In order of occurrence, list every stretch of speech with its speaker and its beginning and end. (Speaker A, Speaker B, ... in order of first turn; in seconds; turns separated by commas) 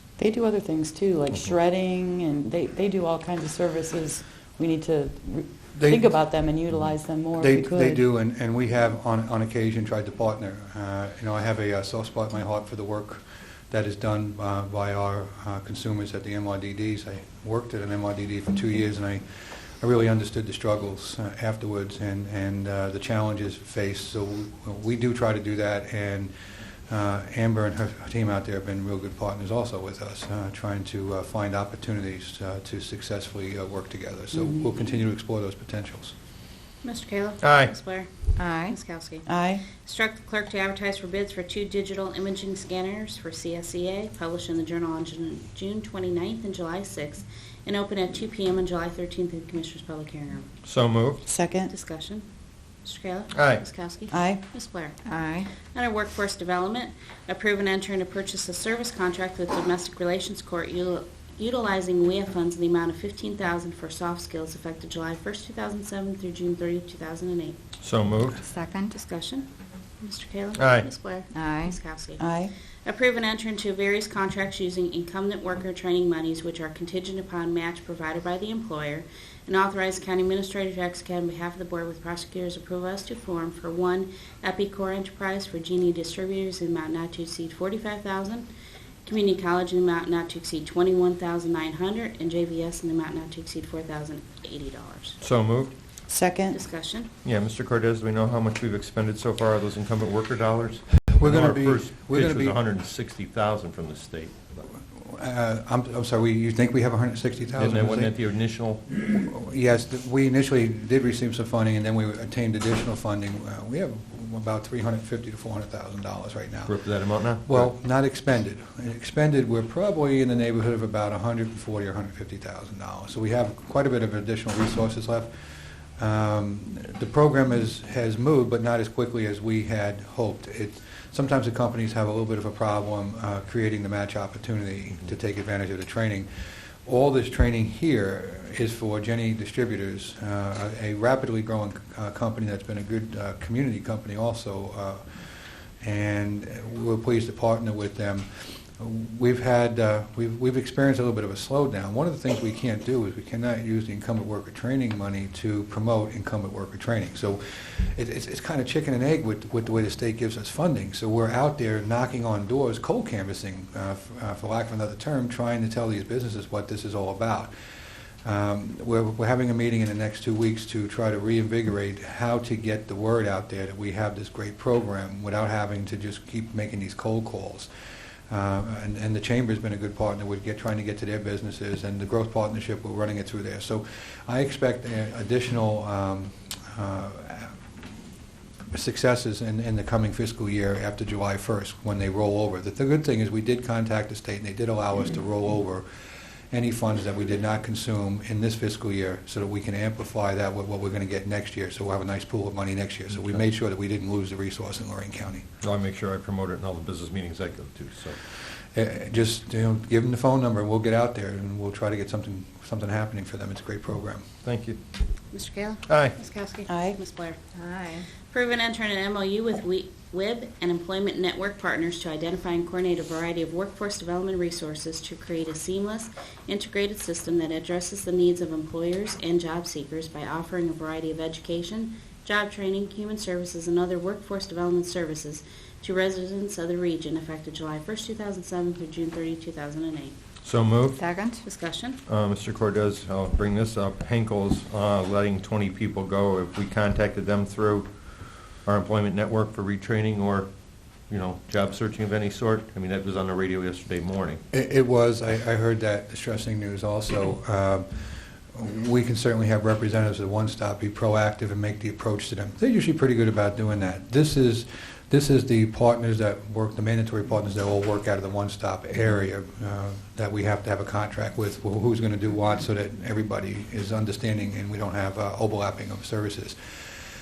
Speaker A: 0.2-8.0, Speaker B: 5.8-6.2, Speaker B: 7.4-26.3, Speaker B: 26.9-36.1, Speaker C: 36.8-39.3, Speaker D: 37.4-37.7, Speaker E: 38.4-38.8, Speaker A: 39.3-39.6, Speaker C: 39.8-50.5, Speaker D: 50.6-51.2, Speaker A: 51.3-51.7, Speaker C: 51.7-52.2, Speaker C: 52.8-55.0, Speaker D: 53.3-53.6, Speaker A: 54.1-54.4, Speaker E: 55.0-55.5, Speaker C: 55.6-67.6, Speaker D: 67.8-68.4, Speaker E: 68.4-69.0, Speaker C: 68.9-69.5, Speaker C: 70.0-72.3, Speaker D: 70.6-70.9, Speaker E: 71.3-71.8, Speaker A: 72.2-72.5, Speaker C: 72.8-88.5, Speaker C: 89.0-95.2, Speaker D: 95.2-95.7, Speaker A: 96.1-96.6, Speaker C: 96.5-97.1, Speaker D: 97.2-104.4, Speaker B: 101.1-102.6, Speaker B: 104.8-108.2, Speaker D: 107.6-108.8, Speaker B: 108.9-116.9, Speaker D: 116.7-117.7, Speaker B: 117.4-145.2, Speaker B: 145.8-167.5, Speaker B: 168.2-177.7, Speaker B: 178.3-187.6, Speaker B: 188.7-195.9, Speaker B: 196.5-205.4, Speaker D: 205.6-208.2, Speaker B: 208.7-214.2, Speaker D: 214.4-214.8, Speaker C: 215.3-217.4, Speaker D: 215.9-216.2, Speaker A: 216.7-217.0, Speaker E: 217.6-218.1, Speaker C: 218.3-240.2, Speaker D: 240.4-241.0, Speaker E: 240.9-241.4, Speaker C: 241.4-242.0, Speaker D: 242.1-247.9, Speaker D: 248.5-250.5, Speaker D: 251.1-254.4, Speaker B: 254.5-276.9